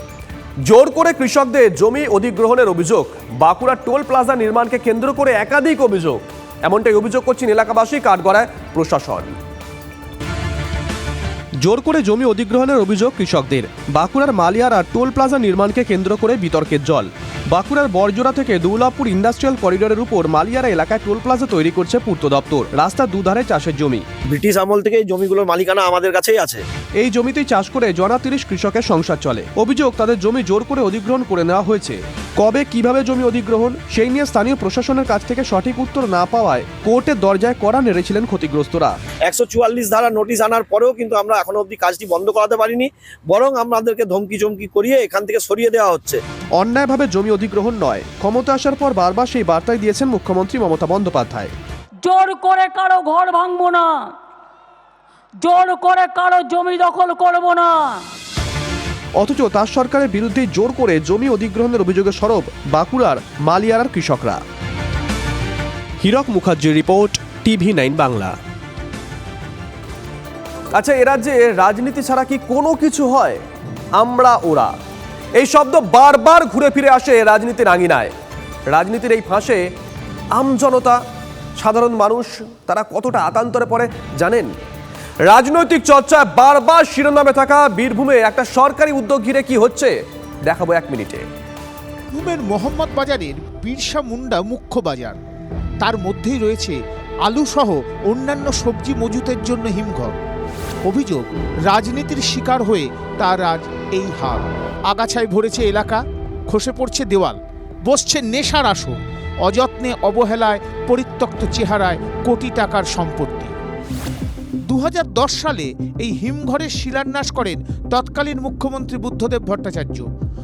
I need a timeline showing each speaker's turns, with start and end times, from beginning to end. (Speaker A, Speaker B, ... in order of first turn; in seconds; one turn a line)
Speaker A: 0.7-9.3
Speaker A: 11.6-24.1
Speaker B: 24.3-26.6
Speaker A: 27.0-39.0
Speaker B: 39.3-46.2
Speaker A: 46.6-51.5
Speaker C: 52.0-54.1
Speaker C: 55.4-58.0
Speaker A: 59.2-64.4
Speaker A: 66.0-68.4
Speaker A: 70.7-73.4
Speaker A: 74.0-74.7
Speaker A: 75.4-78.1
Speaker A: 78.7-79.6
Speaker A: 80.3-81.0
Speaker A: 81.6-84.5
Speaker A: 85.3-89.9
Speaker A: 90.5-91.2
Speaker D: 92.1-95.2
Speaker D: 95.8-100.2
Speaker D: 100.8-113.5
Speaker D: 114.7-120.1